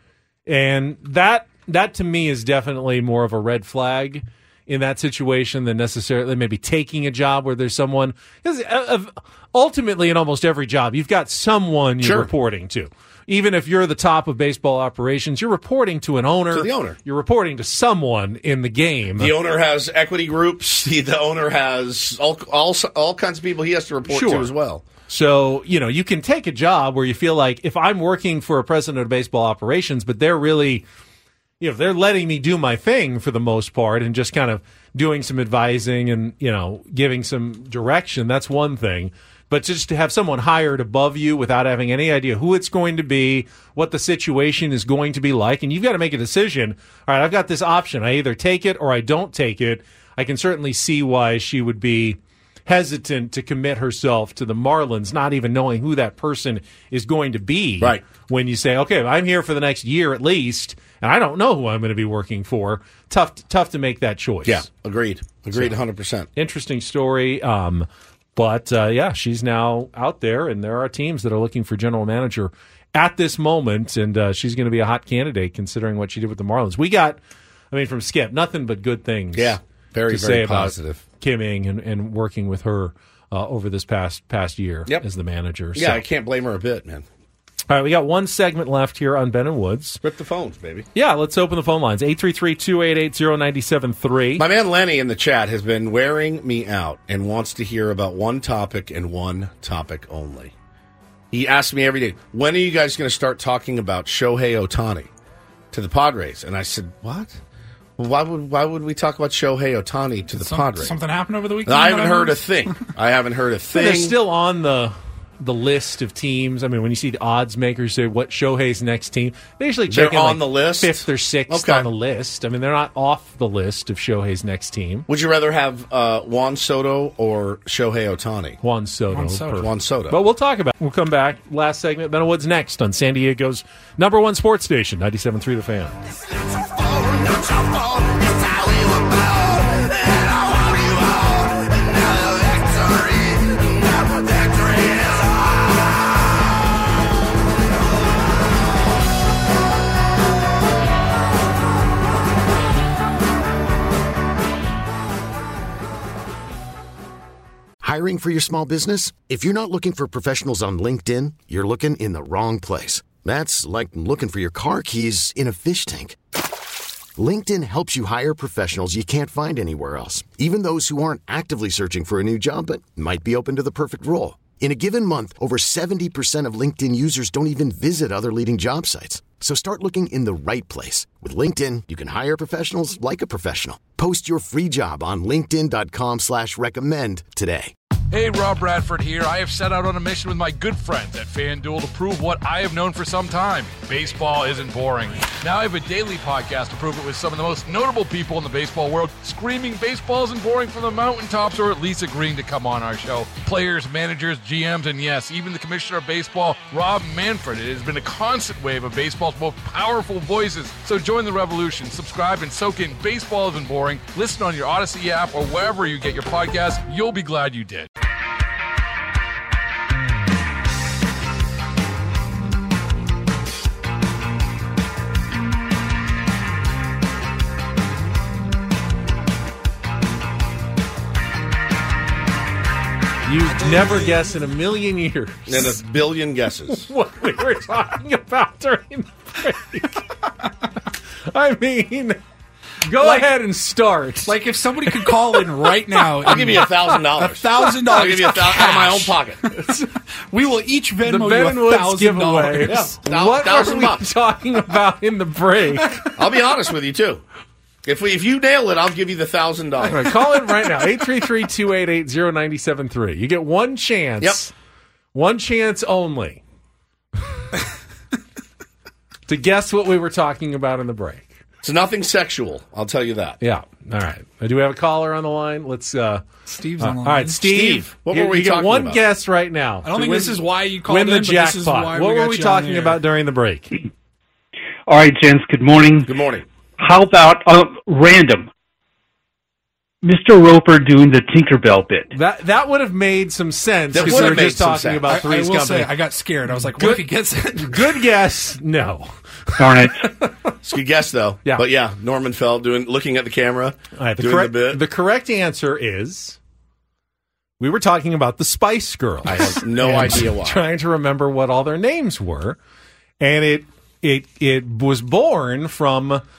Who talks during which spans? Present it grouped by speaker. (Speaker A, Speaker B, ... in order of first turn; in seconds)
Speaker A: 0.5-19.3, 24.1-24.5, 25.1-30.8, 31.6-64.7, 66.3-77.2, 77.7-79.6, 80.1-86.0, 87.7-90.0, 90.9-94.4, 113.7-125.1, 128.6-135.9, 233.2-235.8, 236.7-240.1, 241.3-242.2, 242.8-244.4, 244.9-245.4, 246.2-246.6, 251.0-256.1, 259.8-264.5, 265.1-266.4, 269.3-271.3, 273.4-276.2, 276.8-283.7, 292.1-295.9, 296.5-300.3, 303.9-306.4, 307.6-312.6, 313.2-316.2
Speaker B: 12.0-12.3, 16.5-17.0, 19.2-24.8, 64.5-66.3, 79.3-81.0, 85.7-87.0, 90.0-90.9, 94.4-100.5, 101.3-105.1, 105.7-107.3, 108.0-111.0, 111.6-114.2, 119.9-121.9, 125.1-128.6, 129.6-130.2, 235.5-236.9, 246.2-249.4, 252.7-254.0, 256.1-257.2, 257.8-260.1, 264.2-264.4, 271.6-273.4, 277.4-279.0, 286.1-286.4, 293.9-295.2, 300.6-304.8, 309.2-310.6
Speaker C: 110.4-112.7, 129.1-129.6, 243.0-243.3, 244.2-252.8, 276.5-277.4, 279.8-283.0, 294.0-294.4, 295.1-298.0
Speaker D: 157.8-166.2, 167.2-187.7
Speaker E: 188.1-217.9
Speaker F: 284.9-286.1, 286.8-288.5, 290.0-292.1, 299.6-300.1